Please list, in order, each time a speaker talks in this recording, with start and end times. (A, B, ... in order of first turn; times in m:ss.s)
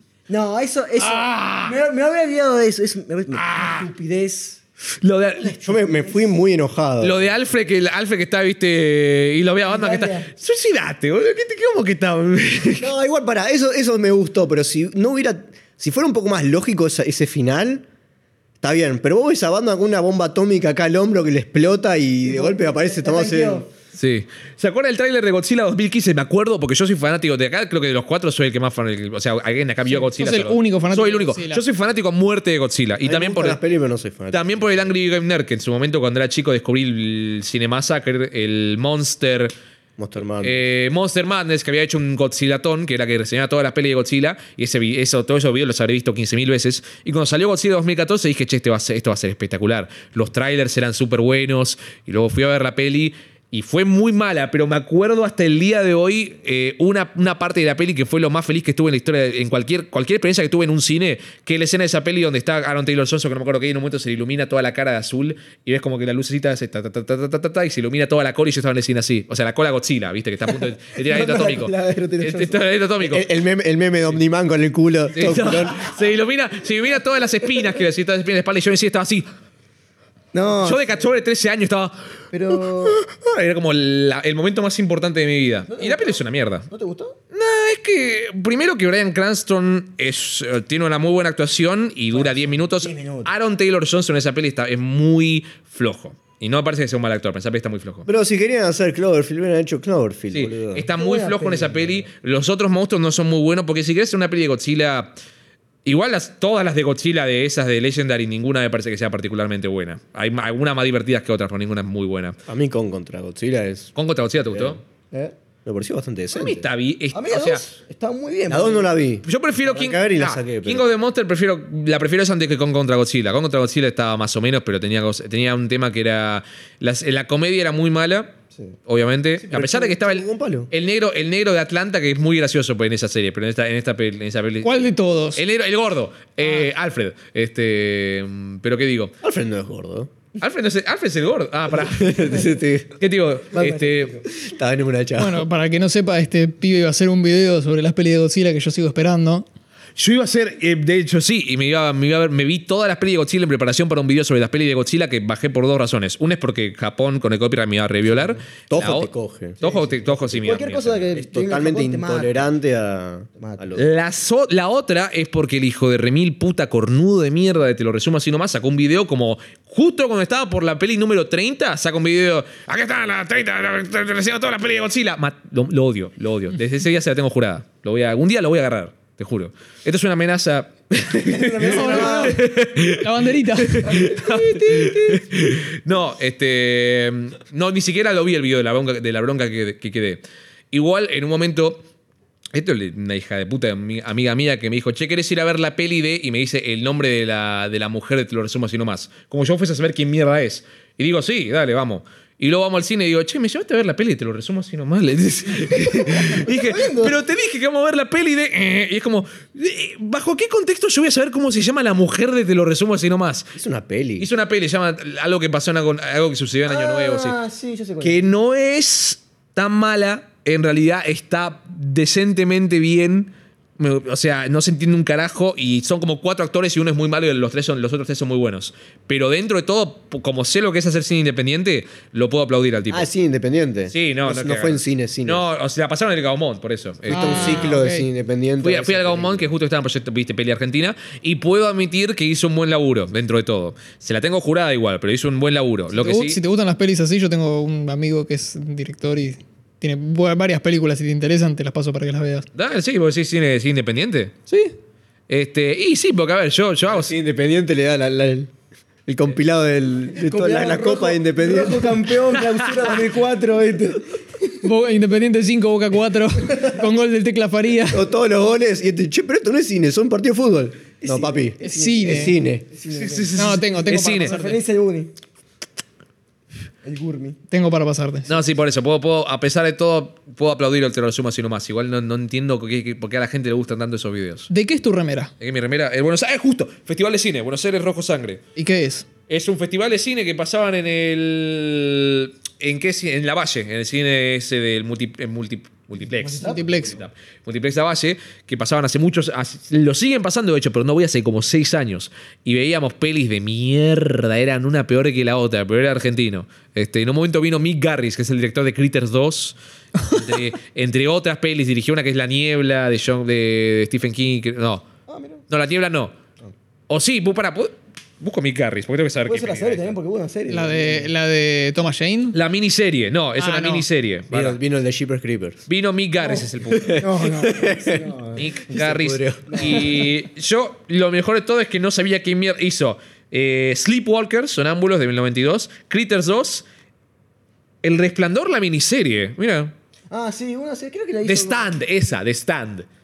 0:00.3-0:04.6 A
0:01.0-0:01.8 B
0:03.3-0:03.9 B
0:05.0-0:05.6 B
0:05.4-0:06.3 A
0:05.6-0:07.2 C
0:07.0-0:12.9 B
0:09.6-0:10.3 A
0:12.8-0:17.8 C
0:18.6-0:23.6 C
0:22.2-0:23.7 A
0:23.9-0:33.6 B
0:29.8-0:31.6 D
0:33.0-0:34.9 C
0:34.3-0:39.5 B
0:40.0-0:40.6 C
0:40.4-1:13.2 B
1:10.6-1:12.6 A
1:13.0-1:15.9 C
1:15.1-1:19.2 B
1:20.3-1:21.1 A
1:20.6-1:21.9 B
1:22.3-1:23.0 A
1:22.5-1:26.7 B
1:25.7-1:27.2 A
1:27.3-1:38.1 B
1:32.1-1:33.3 A
1:38.0-1:40.9 C
1:40.3-1:45.1 B
1:40.9-1:42.0 A
1:45.8-1:52.4 B
1:52.5-1:53.9 C
1:54.0-1:54.8 B
1:54.4-1:54.8 C
1:55.6-1:56.6 C
1:56.3-1:57.6 B
1:57.1-1:58.9 A
1:58.5-2:00.8 C
1:59.2-2:08.3 B
2:08.9-2:19.1 B
2:09.4-2:10.7 C
2:14.6-2:15.4 D
2:19.2-2:20.1 C
2:20.4-2:24.2 B
2:21.7-2:22.9 C
2:23.5-2:24.2 A
2:24.3-2:25.5 C
2:25.2-2:29.4 D
2:30.0-2:41.1 B
2:38.3-2:40.4 C
2:39.6-2:42.5 A
2:41.1-2:43.8 C
2:43.4-2:43.6 A
2:43.8-3:10.2 B
3:01.2-3:02.4 A
3:01.6-3:02.4 D
3:03.0-3:04.0 D
3:03.8-3:05.3 A
3:10.7-3:11.8 B
3:12.5-3:33.5 B
3:25.7-3:27.2 A
3:33.5-3:34.3 C
3:34.2-3:37.4 B
3:36.7-3:38.2 A
3:38.0-3:53.1 B
3:52.9-3:55.5 C
3:53.9-3:57.8 B
3:57.1-3:59.5 C
3:57.1-3:58.1 D
3:58.6-4:06.4 B
4:05.9-4:12.4 D
4:12.5-4:14.4 B
4:14.5-4:14.7 D
4:15.3-4:17.1 B
4:16.9-4:18.5 C
4:19.1-4:22.2 C
4:20.1-4:24.7 A
4:24.6-4:28.0 D
4:27.9-4:32.6 C
4:31.0-4:35.1 A
4:31.6-4:32.4 D
4:32.9-4:34.4 B
4:33.3-4:34.6 D
4:36.8-4:37.4 A
4:37.5-4:38.3 D
4:38.3-4:44.5 B
4:44.5-4:45.3 D
4:45.4-4:48.4 B
4:48.6-4:49.0 D
4:49.3-5:14.9 B
4:56.2-4:56.9 A
4:56.4-4:57.0 D
5:15.1-5:15.4 A
5:15.5-5:16.2 B
5:16.9-5:19.9 B
5:19.2-5:21.1 A
5:20.5-5:22.4 D
5:22.3-5:24.6 B
5:23.4-5:23.8 D
5:24.3-5:25.6 C
5:25.7-5:27.1 B
5:26.2-5:28.9 A
5:26.7-5:28.1 C
5:28.3-5:36.6 B
5:28.7-5:30.0 C
5:29.5-5:30.1 A
5:37.8-5:39.7 B
5:40.1-5:41.7 A
5:41.2-5:42.8 B